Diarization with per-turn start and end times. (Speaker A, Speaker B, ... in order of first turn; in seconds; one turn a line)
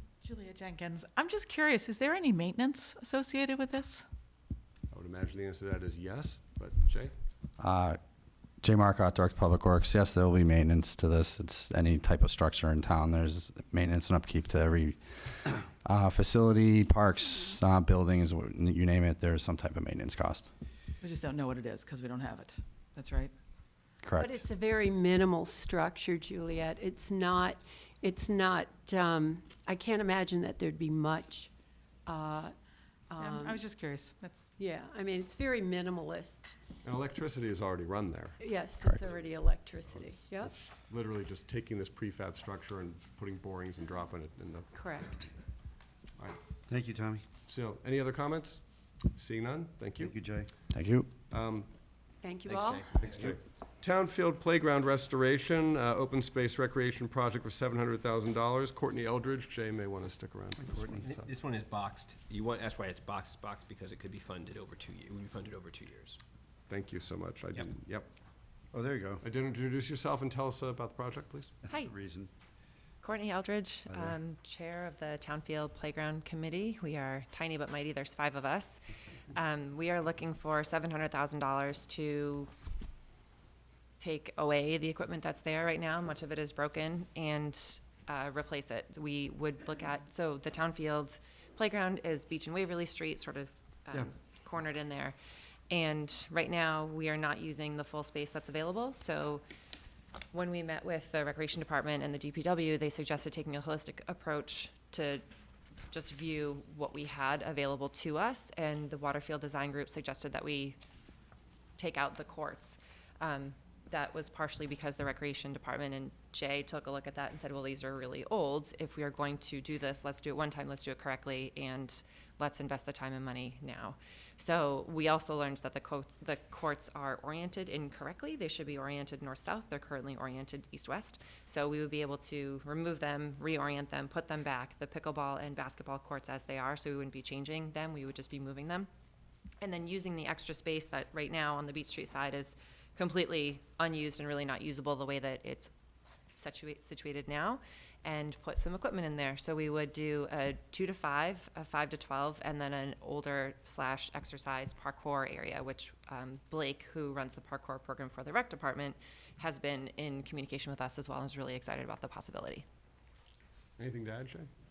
Speaker A: 0.2-4.0
Speaker B: 4.9-7.1
Speaker C: 7.6-8.0
Speaker C: 8.6-20.5
Speaker A: 21.0-23.3
Speaker C: 24.0-24.4
Speaker D: 24.2-31.5
Speaker D: 32.1-32.5
Speaker D: 33.1-33.7
Speaker A: 33.2-34.5
Speaker D: 34.6-36.6
Speaker B: 36.8-38.4
Speaker D: 38.4-40.5
Speaker B: 40.8-44.7
Speaker D: 44.7-45.3
Speaker E: 46.7-47.2
Speaker B: 47.5-50.2
Speaker E: 50.0-50.5
Speaker C: 50.7-51.1
Speaker B: 51.3-51.7
Speaker D: 52.2-53.0
Speaker F: 52.5-53.4
Speaker B: 53.0-61.3
Speaker F: 60.8-66.2
Speaker B: 66.7-68.1
Speaker E: 68.7-69.2
Speaker B: 69.2-71.5
Speaker E: 71.7-72.3
Speaker G: 73.0-82.5
Speaker E: 73.9-74.2
Speaker G: 84.0-95.2
Speaker G: 95.7-99.4
Speaker G: 100.3-105.2
Speaker G: 105.9-110.8
Speaker G: 111.8-138.9
Speaker G: 139.6-145.7
Speaker G: 146.4-162.7
Speaker B: 163.8-164.5